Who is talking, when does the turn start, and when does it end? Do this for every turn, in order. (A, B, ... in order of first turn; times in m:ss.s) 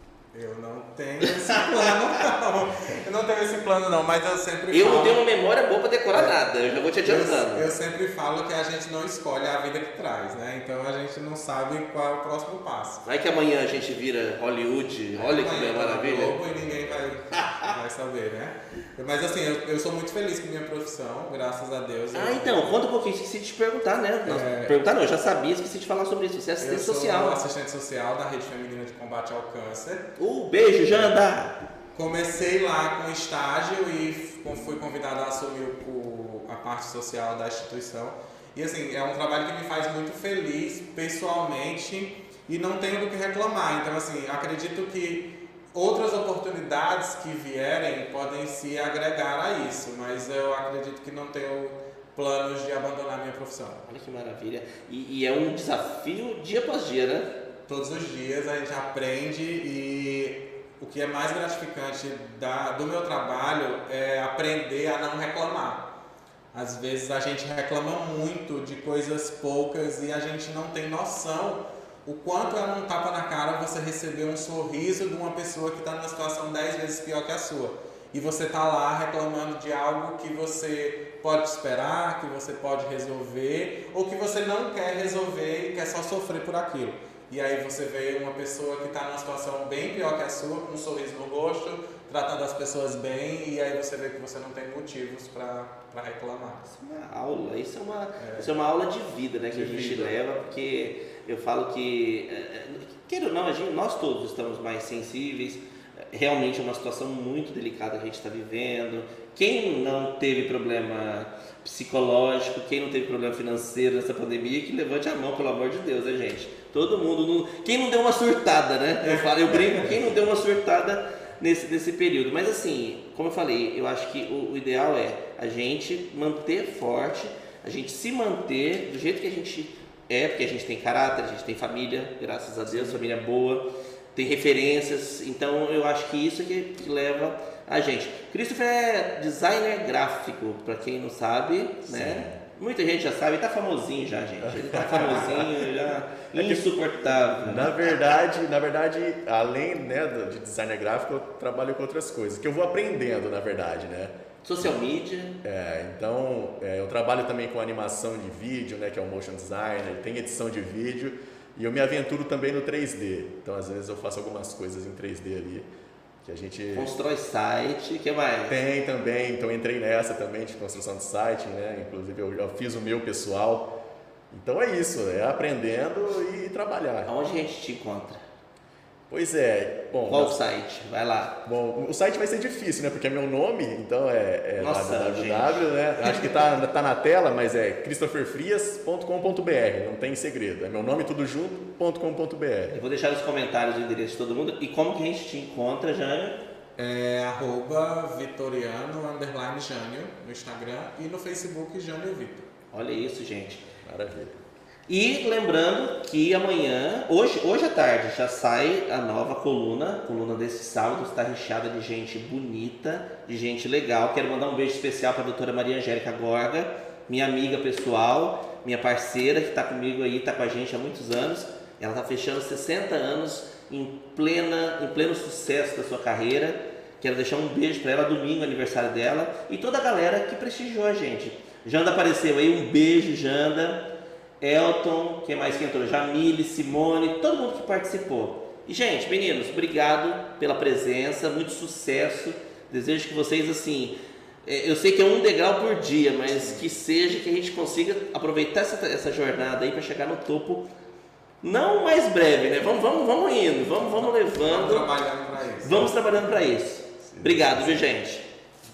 0:00.3-0:05.2 A
0:01.2-0:02.1 B
0:04.7-0:07.7 B
0:07.0-0:13.0 A
0:13.0-0:17.7 B
0:15.1-0:22.7 A
0:22.1-0:27.4 B
0:24.2-0:24.8 A
0:26.6-0:30.1 A
0:30.2-0:31.6 B
0:32.0-0:53.8 A
0:53.9-0:57.3 B
0:57.7-1:05.9 A
1:06.5-1:36.6 A
1:36.7-2:27.9 B
1:38.2-1:38.5 A
1:39.5-1:40.1 A
1:59.0-1:59.9 A
2:21.9-2:22.4 C
2:24.4-2:25.7 C
2:26.3-2:26.7 C
2:27.4-2:34.8 C
2:34.4-2:35.4 B
2:35.4-2:45.7 C
2:46.2-2:46.9 C
2:46.7-2:48.6 B
2:48.5-2:53.7 C
2:54.3-2:57.1 C
2:57.1-2:58.2 B
2:59.1-3:00.4 C
3:00.1-3:01.4 B
3:01.4-3:12.8 C
3:04.6-3:06.4 B
3:12.7-3:16.4 B
3:16.8-3:22.5 A
3:22.7-3:23.6 B
3:23.8-3:24.4 C
3:24.9-3:53.9 B
3:54.4-4:10.7 B
4:11.4-4:14.9 B
4:13.8-4:16.0 A
4:15.6-4:18.3 B
4:17.1-4:17.9 C